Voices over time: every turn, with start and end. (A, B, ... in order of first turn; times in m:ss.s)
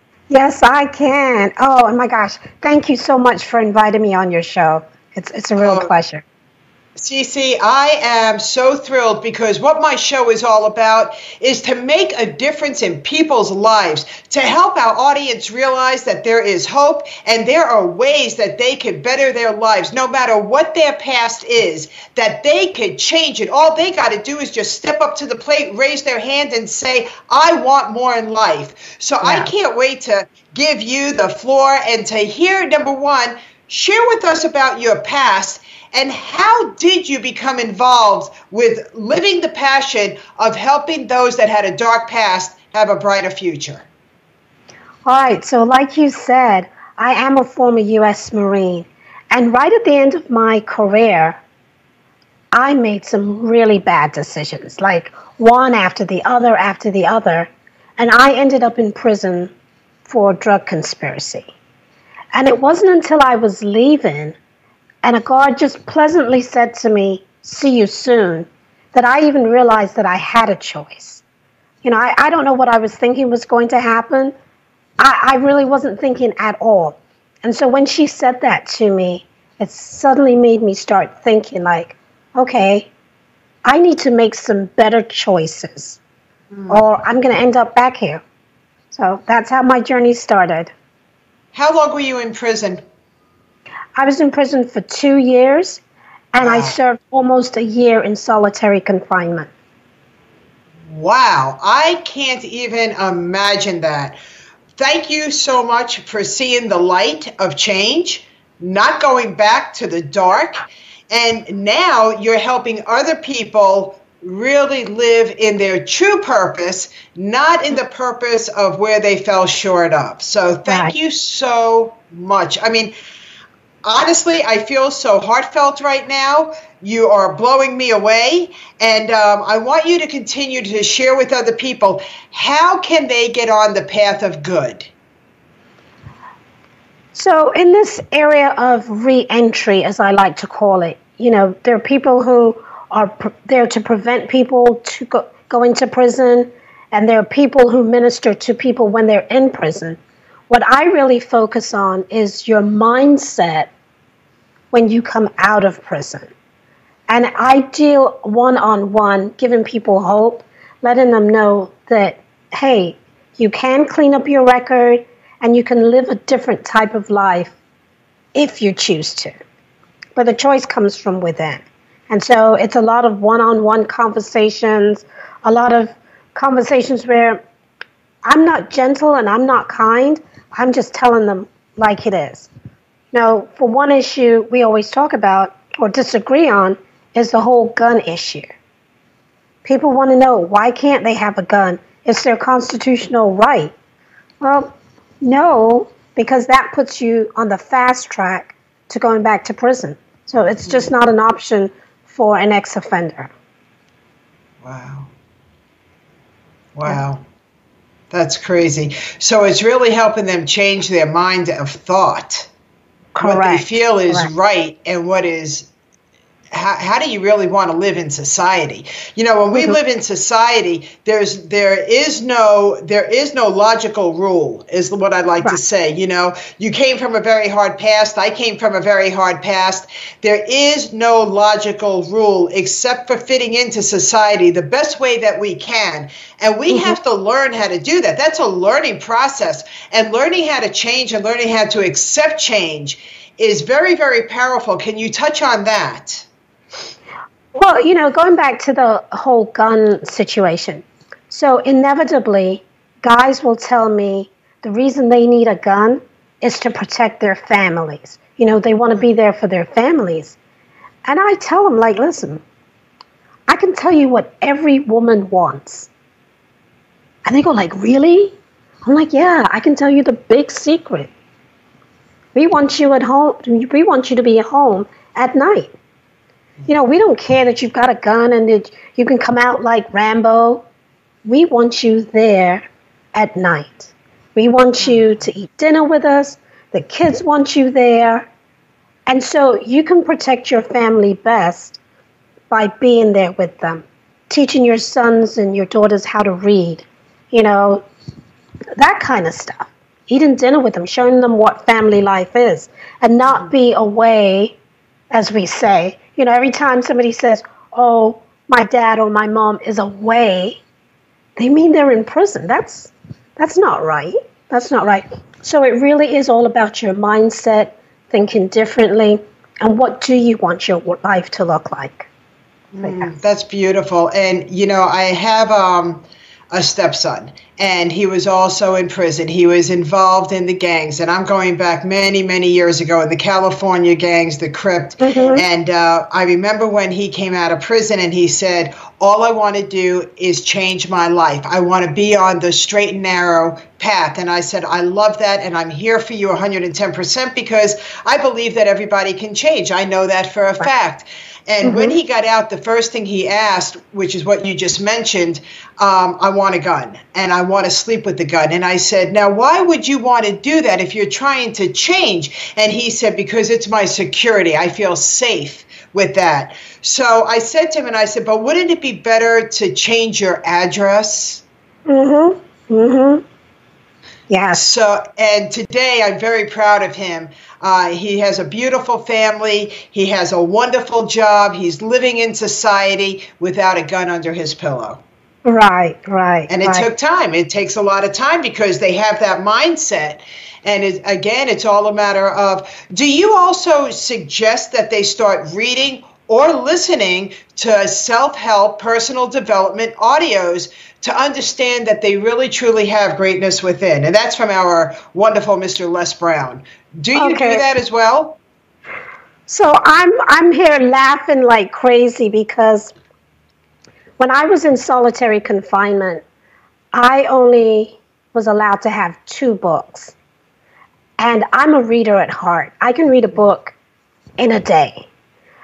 0:00.3-0:06.2 A
0:05.6-0:05.9 B
0:07.0-0:43.9 B
0:29.2-0:29.5 A
0:45.0-0:51.4 A
0:52.5-0:59.5 A
1:00.1-1:01.5 A
1:02.3-1:04.4 A
1:05.0-1:11.2 A
1:11.8-1:14.3 A
1:15.0-1:22.9 A
1:23.6-1:26.0 A
1:26.5-1:26.8 B
1:26.7-1:28.2 A
1:28.9-1:30.7 A
1:31.5-1:32.8 B
1:34.0-1:35.8 A
1:36.3-1:39.5 A
1:36.4-1:36.8 B
1:40.9-1:44.2 B
1:44.8-2:02.9 B
2:00.7-2:00.9 A
2:03.8-2:14.9 B
2:17.1-2:30.0 A
2:30.5-2:33.7 A
2:34.7-2:36.3 A
2:37.1-2:47.5 A
2:48.3-2:49.3 A
2:50.2-2:57.4 A
2:58.2-3:02.5 A
3:03.1-3:08.5 A
3:09.6-3:13.7 A
3:14.4-3:23.3 A
3:20.6-3:20.9 B
3:24.6-3:25.1 B
3:26.8-3:27.2 B
3:28.1-3:32.5 B
3:33.2-3:34.3 A
3:33.2-3:35.7 B
3:36.5-4:06.2 B
3:39.5-3:39.8 A
3:56.7-3:57.0 A
4:07.6-4:20.4 A
4:21.1-4:22.4 A
4:23.5-4:25.9 A
4:27.2-4:31.1 A
4:32.4-4:35.7 A
4:36.7-4:40.6 A
4:41.2-4:48.3 A
4:44.8-4:45.0 B
4:49.1-4:51.8 A
4:52.5-4:57.8 A
4:58.8-5:04.6 A
5:05.1-5:10.6 A
5:11.4-5:22.1 A
5:22.7-6:11.4 B
5:22.8-5:23.1 A
5:35.0-5:35.4 A
5:51.6-5:52.0 A
6:11.9-6:13.2 A
6:14.3-6:14.6 A
6:14.5-6:25.0 B
6:25.4-6:26.9 A
6:26.5-6:48.4 B
6:47.1-6:47.6 A
6:49.5-6:52.9 A
6:54.2-6:56.2 A
6:56.9-7:00.1 A
7:01.2-7:03.8 A
7:04.4-7:05.1 A